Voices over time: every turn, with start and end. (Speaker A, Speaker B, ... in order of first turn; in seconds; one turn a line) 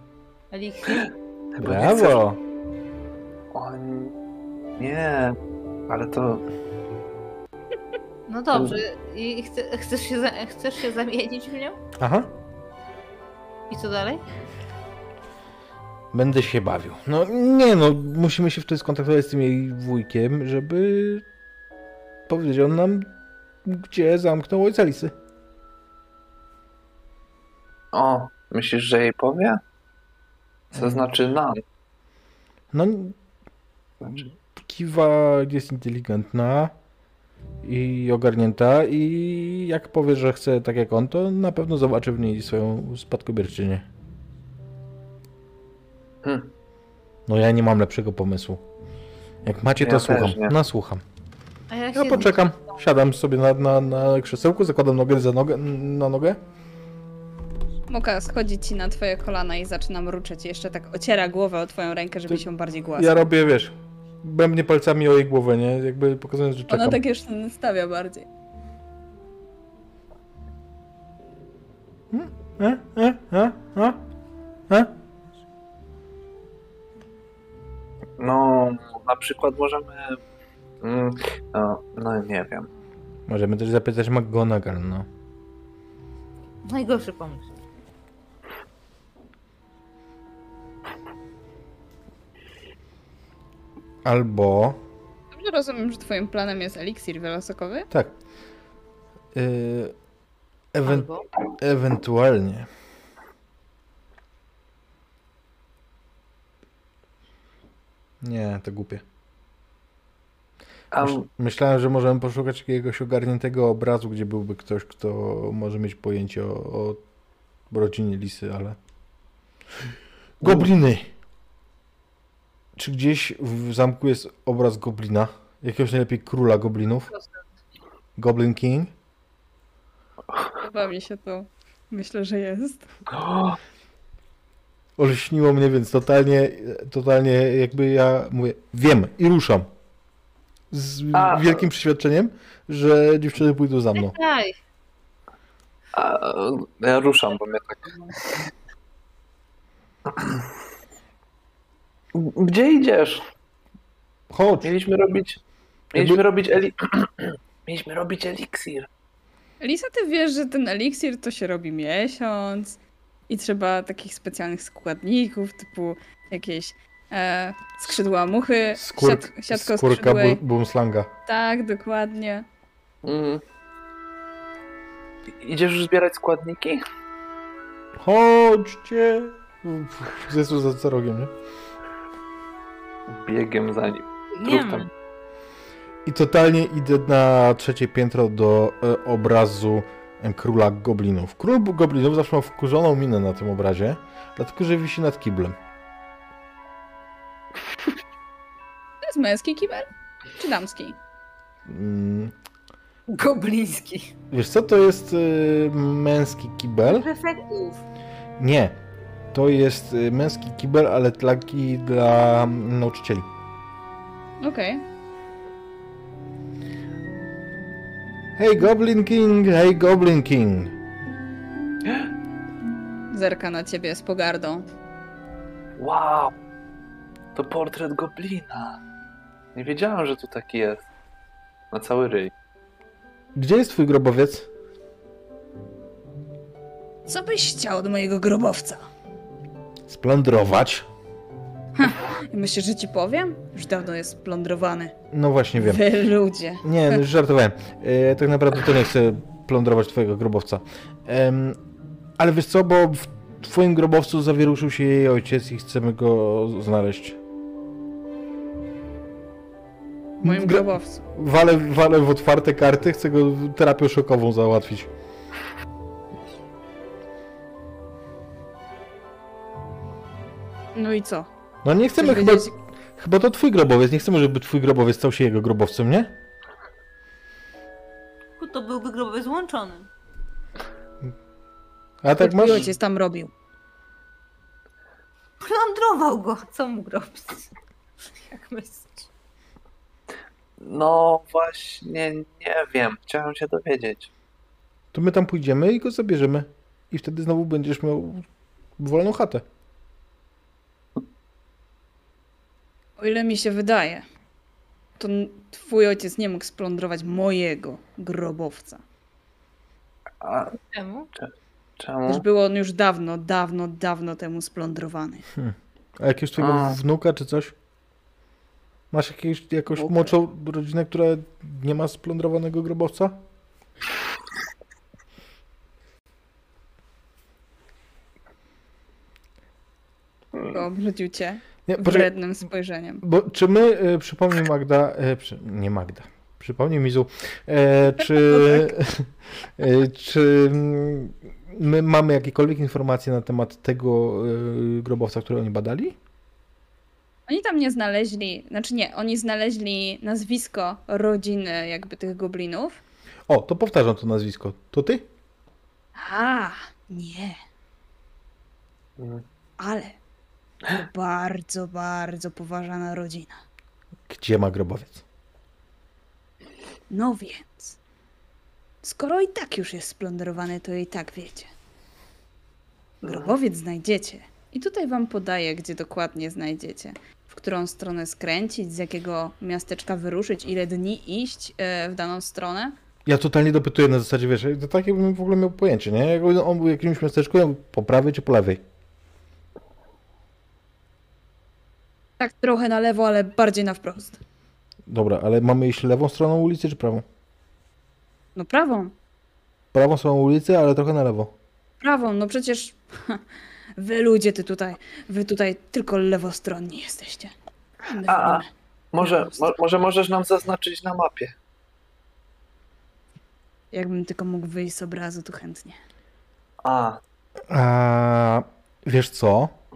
Speaker A: 0.5-1.1
Speaker B: 0.9-2.2
Speaker C: 1.6-2.4
Speaker B: 3.5-4.1
Speaker B: 4.8-5.4
Speaker B: 5.9-6.5
Speaker A: 8.3-11.8
Speaker B: 8.5-8.8
Speaker C: 12.0-12.3
Speaker A: 13.7-14.2
Speaker C: 16.1-21.2
Speaker C: 22.3-23.1
Speaker C: 23.6-25.1
Speaker B: 27.9-29.6
Speaker B: 30.7-31.6
Speaker C: 30.7-31.1
Speaker C: 32.7-33.2
Speaker C: 34.1-36.7
Speaker C: 37.6-43.9
Speaker B: 46.2-46.5
Speaker C: 47.3-48.6
Speaker C: 49.5-51.0
Speaker B: 49.8-50.5
Speaker A: 51.7-52.4
Speaker C: 51.9-56.4
Speaker D: 57.9-63.3
Speaker C: 63.0-67.0
Speaker D: 66.7-68.3
Speaker C: 72.1-74.0
Speaker C: 74.7-74.9
Speaker B: 78.2-80.2
Speaker B: 80.8-82.7
Speaker C: 83.3-85.1
Speaker A: 86.6-87.5
Speaker C: 94.0-94.8
Speaker D: 95.3-97.9
Speaker C: 99.3-99.9
Speaker C: 100.7-101.1
Speaker A: 100.8-101.2
Speaker C: 101.6-102.7
Speaker C: 108.2-109.0
Speaker B: 110.9-111.3
Speaker C: 111.0-117.0
Speaker C: 117.7-118.8
Speaker C: 120.4-121.1
Speaker C: 122.8-127.1
Speaker C: 128.2-128.9
Speaker D: 130.6-132.9
Speaker B: 133.1-133.6
Speaker C: 135.0-139.7
Speaker C: 140.7-144.2
Speaker B: 141.1-141.6
Speaker A: 143.9-144.6
Speaker B: 145.9-148.0
Speaker B: 150.1-150.5
Speaker B: 152.1-153.2
Speaker C: 154.3-154.7
Speaker B: 154.6-155.4
Speaker B: 155.9-158.9
Speaker C: 155.9-156.2
Speaker D: 159.6-170.4
Speaker C: 168.8-171.1
Speaker D: 171.3-172.5
Speaker B: 173.0-173.4
Speaker B: 175.4-176.8
Speaker C: 178.0-181.3
Speaker B: 183.1-184.9
Speaker A: 184.3-184.9
Speaker C: 186.1-195.6
Speaker D: 199.0-201.0
Speaker C: 201.7-202.3
Speaker A: 203.1-204.1
Speaker C: 204.3-207.1
Speaker A: 206.8-207.8
Speaker C: 208.4-208.8
Speaker C: 209.3-213.3
Speaker D: 214.4-214.8
Speaker C: 218.4-220.7
Speaker B: 221.8-222.1
Speaker D: 223.1-224.7
Speaker B: 225.8-226.3
Speaker B: 227.3-228.8
Speaker B: 229.6-230.9
Speaker B: 231.7-232.3
Speaker C: 233.3-234.5
Speaker D: 237.1-238.8
Speaker C: 239.9-240.9
Speaker D: 241.8-244.9
Speaker C: 245.1-245.8
Speaker D: 245.6-247.0
Speaker C: 246.6-251.6
Speaker C: 252.2-257.2
Speaker D: 260.2-261.1
Speaker C: 260.2-264.9
Speaker D: 270.8-271.3
Speaker C: 271.6-276.1
Speaker D: 272.0-272.5
Speaker A: 278.4-279.9
Speaker C: 282.0-282.7
Speaker D: 282.2-283.3
Speaker A: 285.4-287.5
Speaker A: 288.3-289.1
Speaker B: 290.6-294.1
Speaker C: 294.9-298.2
Speaker C: 298.8-299.4
Speaker D: 303.0-304.0
Speaker D: 305.0-308.8
Speaker B: 310.2-310.6
Speaker A: 310.6-311.1
Speaker B: 311.8-312.2
Speaker D: 312.1-315.2
Speaker C: 315.4-317.5
Speaker B: 316.4-316.8
Speaker C: 318.9-323.2
Speaker D: 330.4-333.0
Speaker C: 331.7-332.1
Speaker C: 333.0-346.0
Speaker D: 338.0-338.7
Speaker D: 347.3-352.8
Speaker C: 353.3-355.1
Speaker D: 356.0-357.4
Speaker B: 359.0-359.2
Speaker D: 359.6-360.0
Speaker D: 360.7-363.4
Speaker C: 364.1-365.0
Speaker D: 366.9-367.8
Speaker D: 368.8-371.5
Speaker B: 373.0-373.4
Speaker D: 373.0-382.8
Speaker C: 383.1-388.6
Speaker D: 392.2-394.2
Speaker C: 394.9-397.1
Speaker D: 398.4-398.9
Speaker C: 399.7-401.3
Speaker D: 401.8-403.2
Speaker D: 403.8-409.4
Speaker B: 408.1-411.4
Speaker D: 413.7-415.8
Speaker B: 416.6-417.0
Speaker C: 417.5-419.6